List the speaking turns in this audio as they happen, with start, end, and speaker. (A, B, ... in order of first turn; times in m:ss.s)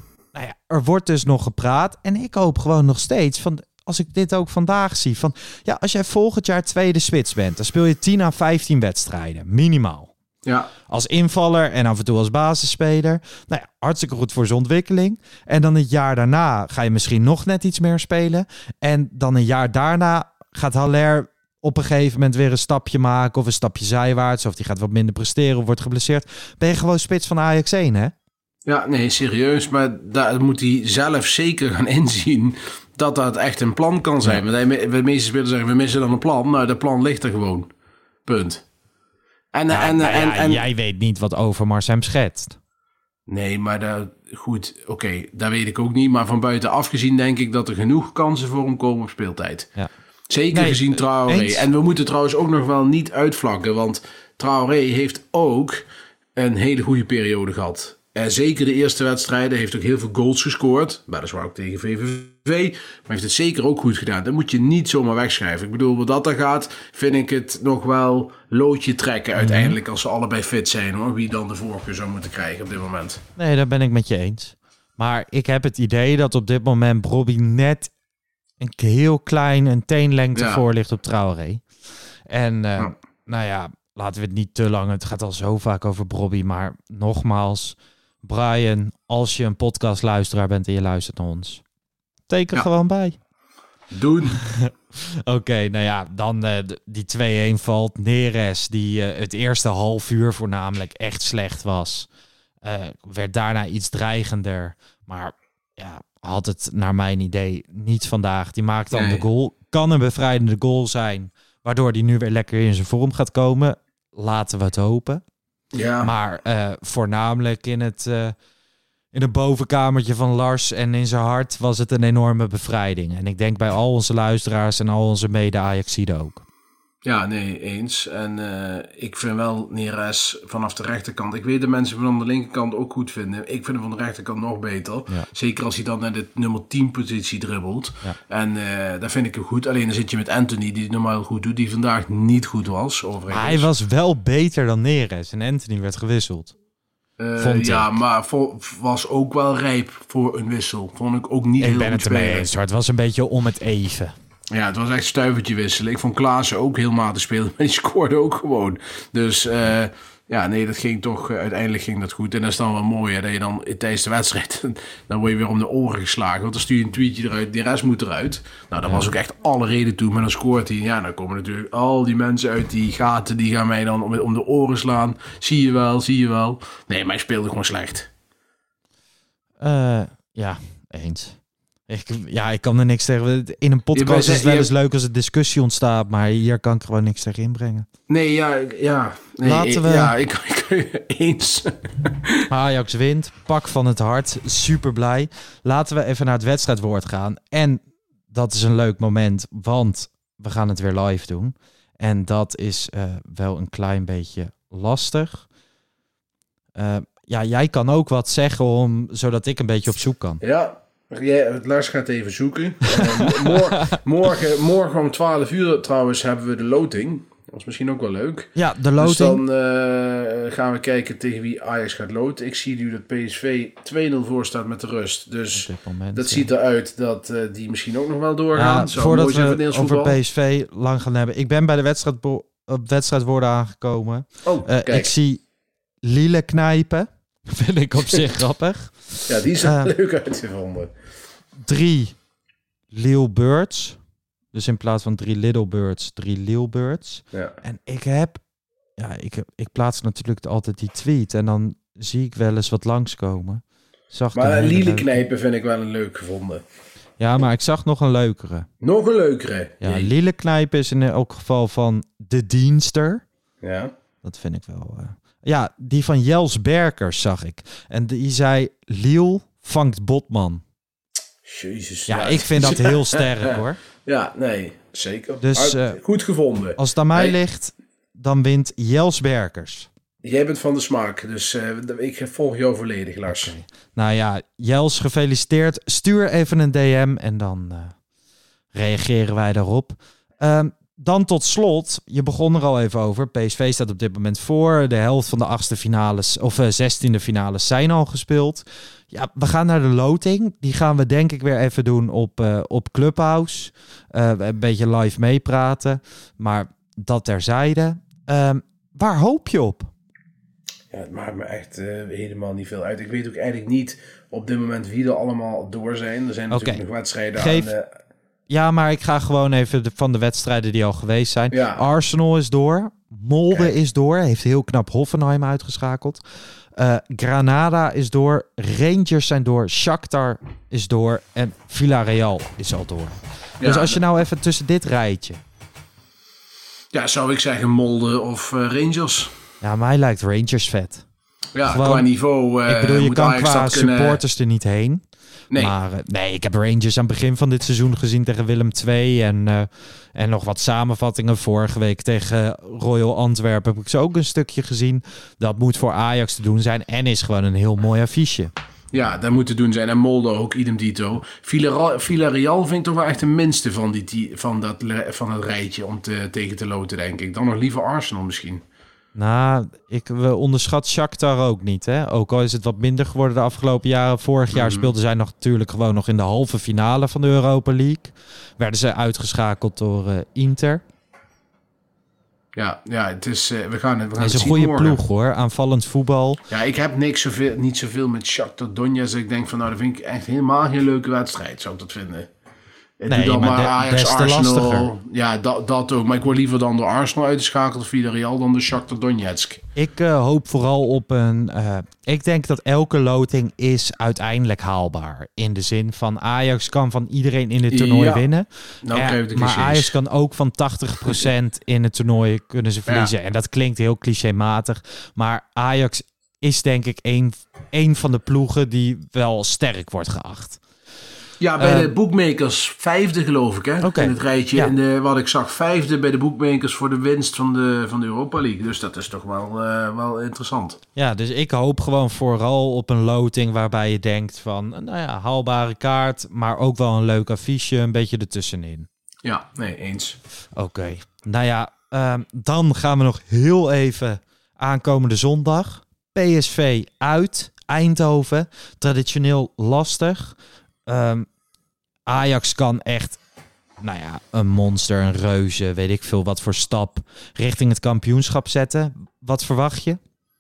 0:00.3-0:10.1 A
0:10.4-0:10.7 B
0:10.9-0:28.1 A
0:28.7-0:37.7 B
0:38.3-0:38.6 B
0:39.5-0:40.6 B
0:39.7-0:42.6 A
0:43.3-0:49.7 B
0:50.3-0:55.8 B
0:50.5-0:51.6 A
0:56.4-1:13.2 B
1:09.4-1:09.8 A
1:13.4-1:17.9 A
1:18.6-1:21.6 A
1:20.3-1:20.6 B
1:22.3-1:31.6 A
1:32.3-1:33.2 A
1:33.9-1:34.4 B
1:34.4-1:34.7 A
1:35.3-1:42.1 A
1:42.6-1:55.2 A
1:48.9-1:49.2 B
1:55.7-1:56.1 B
1:56.0-1:58.4 A
1:59.1-2:06.4 A
2:07.0-2:23.7 B
2:23.3-2:26.5 A
2:27.2-2:32.5 B
2:27.4-2:28.0 A
2:31.6-2:34.1 A
2:34.5-2:58.1 B
2:48.8-2:49.1 A
2:59.6-3:07.9 A
3:03.9-3:04.7 B
3:08.1-3:12.5 B
3:09.4-3:10.1 A
3:12.5-3:25.5 A
3:26.8-3:30.4 A
3:30.4-3:50.2 B
3:38.6-3:39.4 A
3:45.5-3:46.5 A
3:48.6-3:55.4 A
3:54.4-3:55.1 B
3:56.0-3:59.9 A
3:59.3-4:00.9 B
4:01.6-4:02.2 A
4:02.9-4:04.0 A
4:04.5-4:08.4 A
4:09.0-4:15.2 A
4:14.3-4:16.6 B
4:17.2-4:18.7 A
4:18.8-4:20.1 B
4:19.8-4:23.2 A
4:23.6-4:23.9 B
4:24.2-4:30.6 A
4:31.4-4:37.4 B
4:32.1-4:33.8 A
4:35.4-4:36.0 A
4:36.8-4:39.9 A
4:40.2-4:43.5 B
4:43.3-4:48.0 A
4:48.7-5:09.9 A
5:10.9-5:17.9 B
5:16.5-5:16.8 A
5:17.4-5:17.7 A
5:18.5-5:26.2 A
5:21.5-5:21.8 B
5:26.8-5:35.4 A
5:33.6-5:34.0 B
5:36.9-5:39.3 B
5:39.6-5:41.0 A
5:41.6-5:44.2 B
5:41.6-5:42.1 A
5:42.7-5:45.0 A
5:45.6-5:58.5 A
5:58.9-6:08.6 B
6:09.2-6:20.8 A
6:14.5-6:14.9 B
6:22.6-6:25.0 B
6:24.2-6:26.4 A
6:26.5-6:32.3 B
6:33.0-6:39.6 B
6:33.1-6:34.9 A
6:39.8-7:00.6 A
6:47.7-6:48.3 B
6:48.8-6:50.0 B
7:01.4-7:10.8 B
7:01.6-7:01.9 A
7:03.8-7:04.7 A
7:11.0-7:18.9 A
7:19.2-7:20.2 B
7:20.6-7:31.3 A
7:32.1-7:33.2 A
7:33.8-7:40.0 A